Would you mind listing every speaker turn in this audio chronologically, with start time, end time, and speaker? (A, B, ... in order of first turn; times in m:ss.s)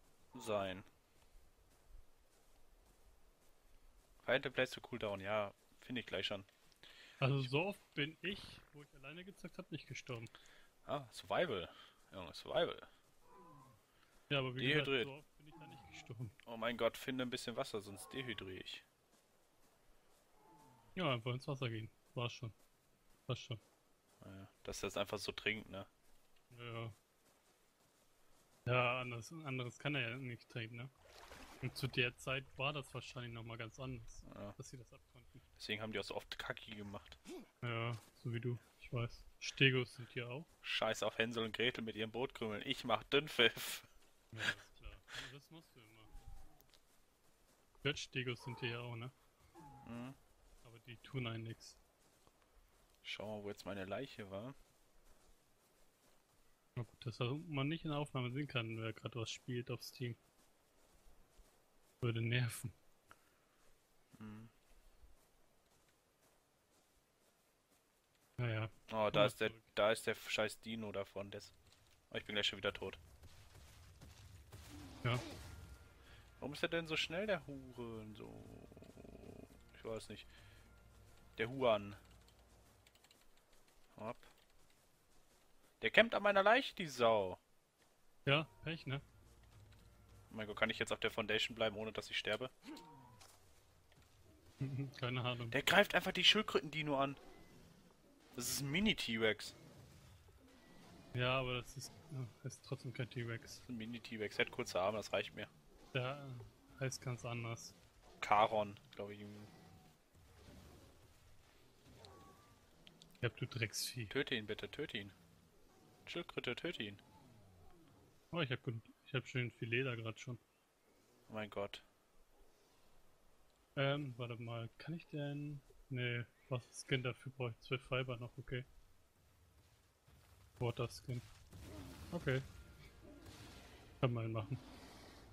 0:00.3-0:00.9 A
0:04.2-0:06.5 A
0:07.2-0:10.3 B
0:10.9-0:12.9 A
0:14.3-0:16.4 B
0:14.6-0:15.1 A
0:16.5-0:18.8 A
0:21.0-0:22.6 B
0:23.3-0:23.6 B
0:24.2-0:25.9 A
0:26.5-0:27.0 B
0:28.7-0:30.9 B
0:31.6-0:35.4 B
0:34.2-0:34.6 A
0:35.6-0:37.2 A
0:37.6-0:40.5 B
0:40.6-0:43.9 A
0:44.3-0:46.1 B
0:47.8-0:49.2 B
0:49.8-0:50.2 A
0:50.6-0:51.8 B
0:53.0-0:54.6 A
0:56.8-1:00.2 B
1:02.0-1:02.7 B
1:04.1-1:04.5 A
1:08.4-1:09.6 B
1:08.9-1:11.6 A
1:12.1-1:13.0 A
1:16.4-1:20.3 A
1:21.4-1:22.0 A
1:24.0-1:24.3 A
1:25.8-1:27.4 A
1:28.3-1:29.0 B
1:30.3-1:32.5 A
1:34.6-1:35.6 B
1:35.5-1:37.2 A
1:38.4-1:39.6 A
1:41.1-1:43.6 B
1:43.6-1:45.5 A
1:45.9-1:47.8 B
1:48.2-1:49.5 A
1:53.2-1:54.1 B
1:54.1-1:55.2 A
1:56.1-1:57.0 A
1:58.3-2:00.4 B
2:01.3-2:01.8 A
2:03.8-2:08.7 B
2:10.6-2:11.2 B
2:12.1-2:12.5 B
2:14.0-2:14.6 B